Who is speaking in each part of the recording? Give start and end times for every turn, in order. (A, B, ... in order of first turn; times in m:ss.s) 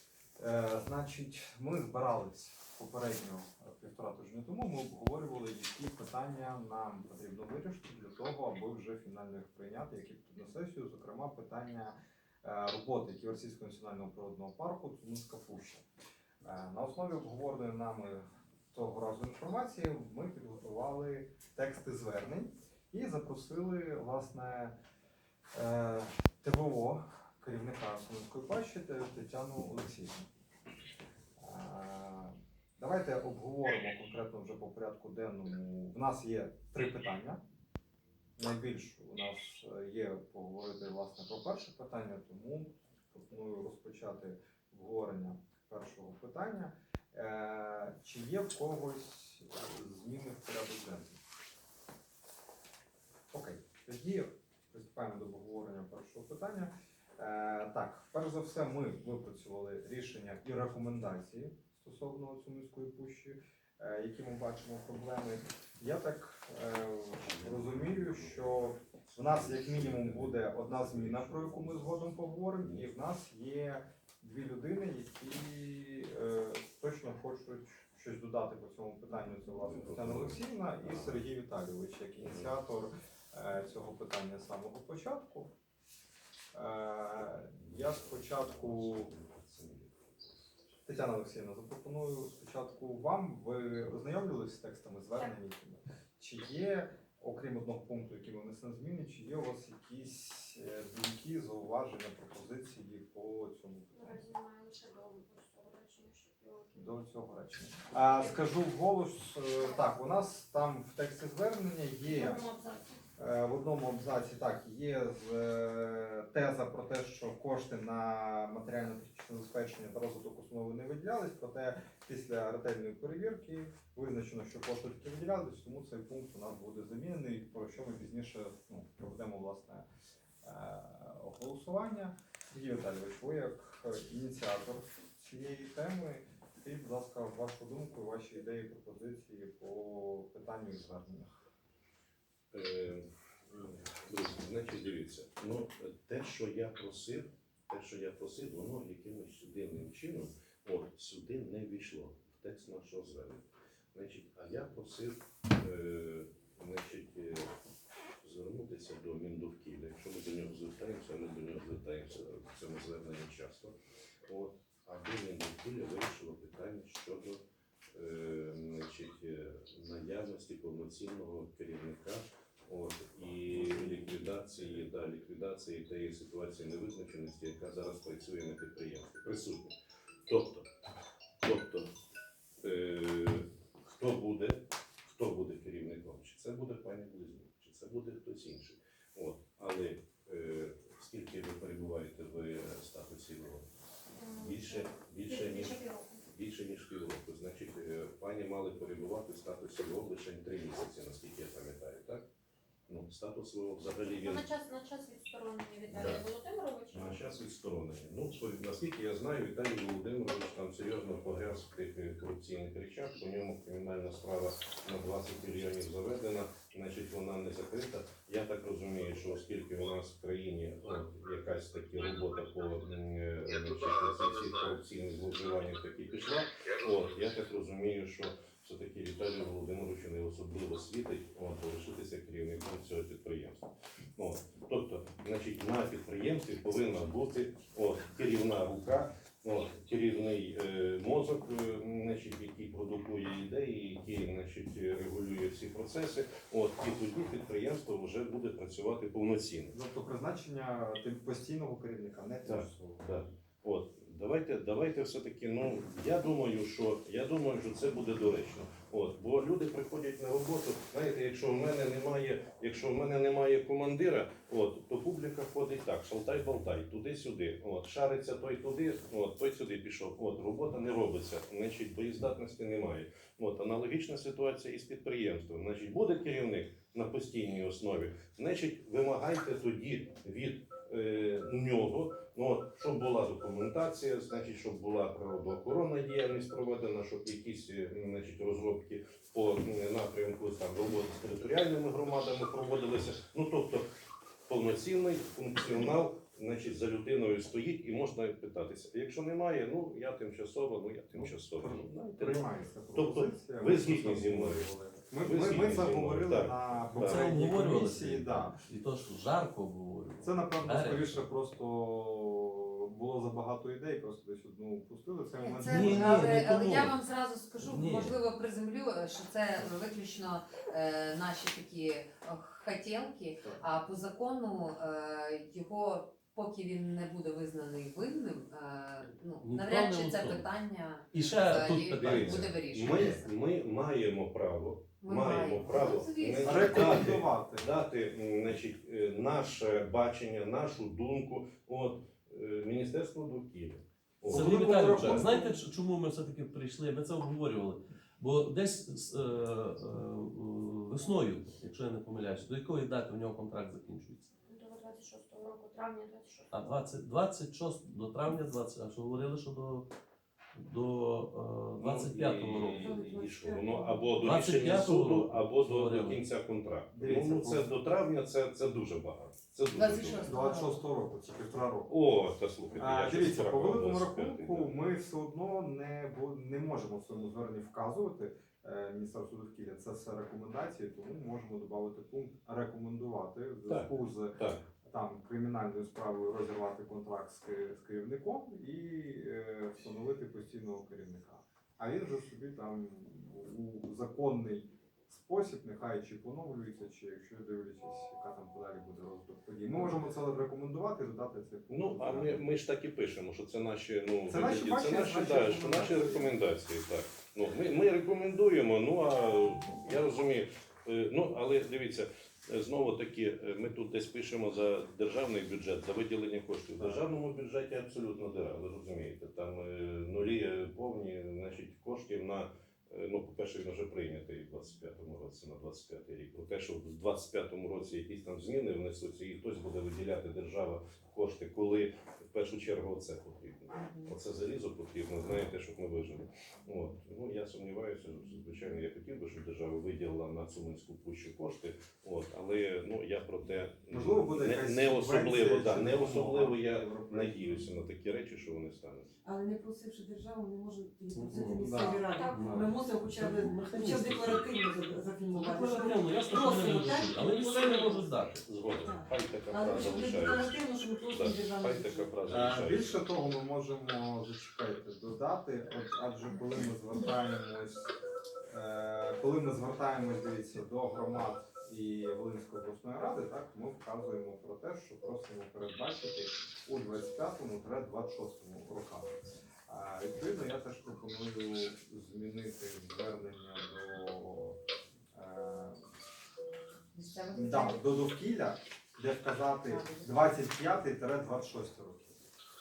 0:00.4-0:15.8 A
0:16.4-0:24.8 A
0:25.5-0:30.2 A
0:31.4-0:37.4 A
0:38.4-0:51.2 A
0:53.3-1:25.5 A
1:07.2-1:11.9 B
1:12.6-1:12.9 B
1:19.6-1:21.2 B
1:22.2-1:22.5 B
1:26.5-1:29.1 A
1:27.7-1:30.0 B
1:30.9-1:44.2 A
1:43.9-1:46.8 C
1:46.8-1:52.4 A
1:48.0-1:48.4 C
1:49.6-1:49.9 C
1:52.0-1:53.0 C
1:53.2-2:09.8 A
2:10.4-2:21.3 A
2:22.5-2:37.5 B
2:38.2-2:43.8 B
2:44.3-2:47.4 B
2:48.0-2:59.7 B
2:53.5-2:54.0 A
3:00.3-3:00.7 B
3:01.4-3:01.9 B
3:02.6-3:13.7 B
3:14.2-3:16.2 C
3:14.4-3:22.3 B
3:22.9-3:24.5 B
3:24.0-3:27.2 C
3:25.9-3:26.3 B
3:26.9-4:09.8 B
4:09.7-4:13.0 A
4:12.4-4:53.8 B
4:54.5-5:07.3 B
5:01.2-5:08.6 A
5:06.9-5:11.3 D
5:10.2-5:16.6 A
5:15.4-5:33.3 E
5:15.7-5:17.0 D
5:17.6-5:18.2 D
5:23.4-5:23.6 A
5:29.4-5:30.5 D
5:31.1-5:32.3 D
5:32.0-5:45.3 B
5:35.0-5:37.2 E
5:36.4-5:37.7 A
5:44.2-5:54.3 D
5:44.3-5:45.6 A
5:54.5-5:56.8 C
5:56.5-5:59.9 D
6:00.6-6:02.9 D
6:01.8-6:10.3 B
6:02.8-6:04.4 F
6:04.2-6:06.3 D
6:06.9-6:07.7 A
6:10.1-6:10.4 E
6:10.2-6:10.8 F
6:10.3-6:11.9 A
6:11.9-6:14.8 B
6:12.8-6:42.4 A
6:23.7-6:24.6 B
6:41.7-7:29.1 B
6:44.3-6:46.4 A
7:13.7-7:14.2 E
7:23.9-7:27.6 A
7:29.2-7:38.1 F
7:31.1-7:34.6 D
7:31.6-7:32.1 A
7:35.3-7:38.4 D
7:38.3-7:43.0 B
7:38.7-7:42.1 F
7:42.3-7:47.8 A
7:48.5-8:04.6 A
8:05.1-8:05.8 A
8:07.0-8:08.0 E
8:07.3-8:12.2 A
8:09.7-8:10.4 E